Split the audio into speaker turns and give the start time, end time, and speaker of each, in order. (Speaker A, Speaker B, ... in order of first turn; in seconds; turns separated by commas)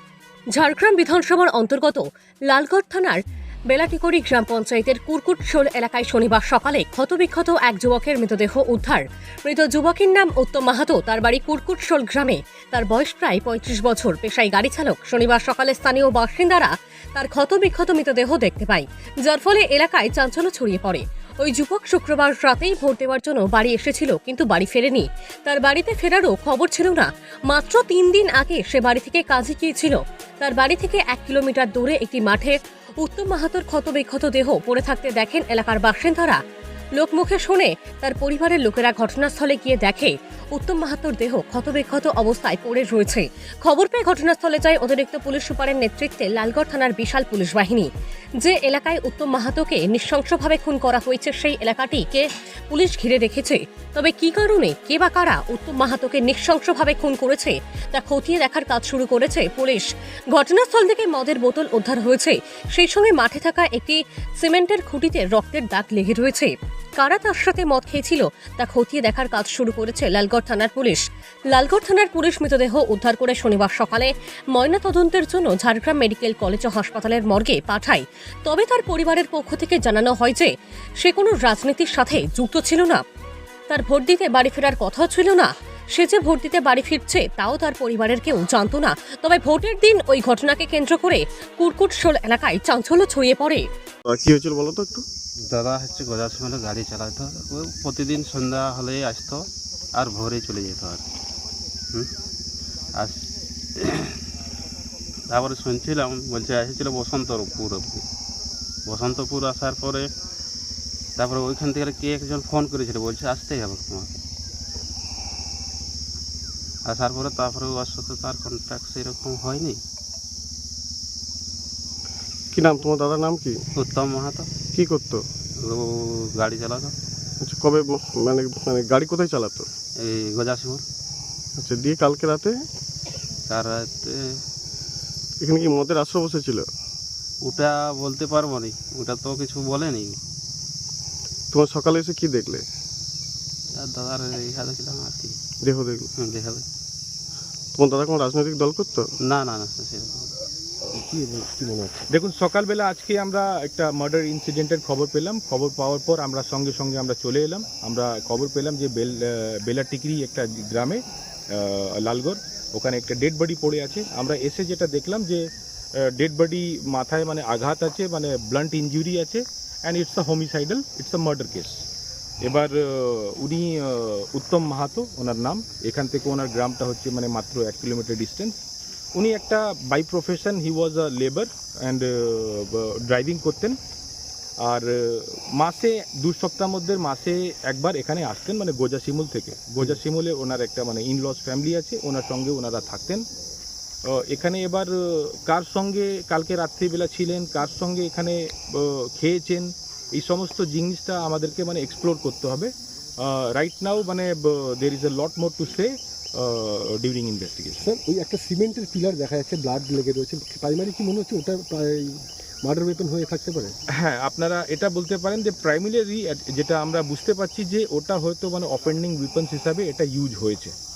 Speaker A: 0.5-3.2, Speaker A: 3.7-36.4, Speaker A: 37.0-83.0, Speaker A: 83.7-93.6, Speaker B: 94.0-95.0, Speaker C: 95.5-101.0, Speaker C: 103.0-103.2, Speaker C: 103.8-104.2, Speaker C: 105.3-108.0, Speaker C: 108.9-110.1, Speaker C: 111.2-114.1, Speaker C: 116.9-119.8, Speaker B: 122.5-123.6, Speaker C: 123.8-124.5, Speaker B: 124.7-125.2, Speaker C: 125.6-126.9, Speaker B: 127.4-129.7, Speaker C: 130.0-130.8, Speaker B: 131.6-132.6, Speaker C: 133.5-134.2, Speaker B: 135.4-136.7, Speaker C: 137.4-140.2, Speaker B: 141.5-142.6, Speaker C: 143.8-145.4, Speaker B: 145.6-146.1, Speaker C: 146.2-146.6, Speaker B: 147.7-149.1, Speaker C: 149.2-150.3, Speaker D: 150.9-152.1, Speaker E: 152.1-165.4, Speaker E: 166.0-171.8, Speaker E: 172.4-178.6, Speaker E: 179.2-183.8, Speaker E: 184.6-193.2, Speaker E: 194.1-207.9, Speaker D: 207.8-213.7, Speaker E: 214.0-220.7